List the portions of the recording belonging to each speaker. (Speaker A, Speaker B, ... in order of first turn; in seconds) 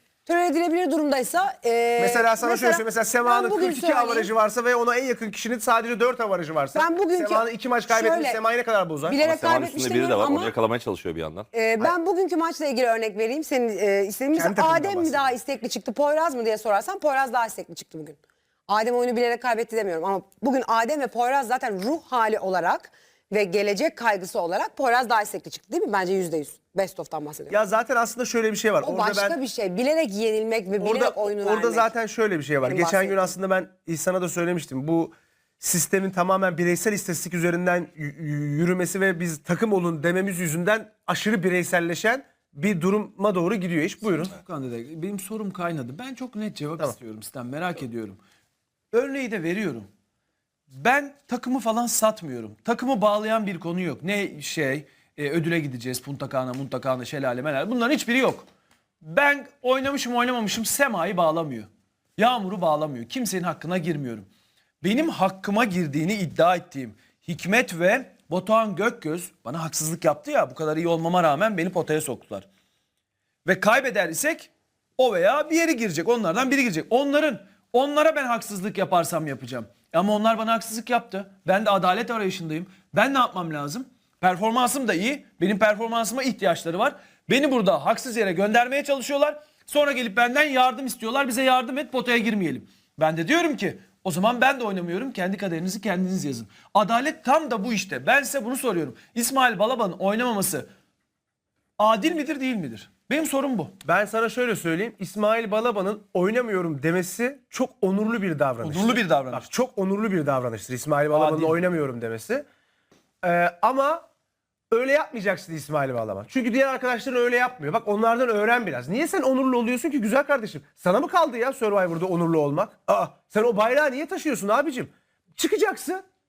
Speaker A: 0.2-4.3, 6.7-8.4, 9.1-10.5, 11.5-27.6, 28.8-31.9, 32.6-33.3
Speaker B: 2.0-9.2, 14.3-15.3, 27.5-29.4, 30.8-44.4, 103.8-112.4, 113.2-114.0, 114.7-126.0
Speaker C: 9.2-11.5
Speaker D: 44.1-48.2, 48.9-49.9, 50.7-58.5, 59.0-64.3, 64.8-72.5, 73.5-100.7, 101.8-103.7, 108.6-109.5, 111.1-111.6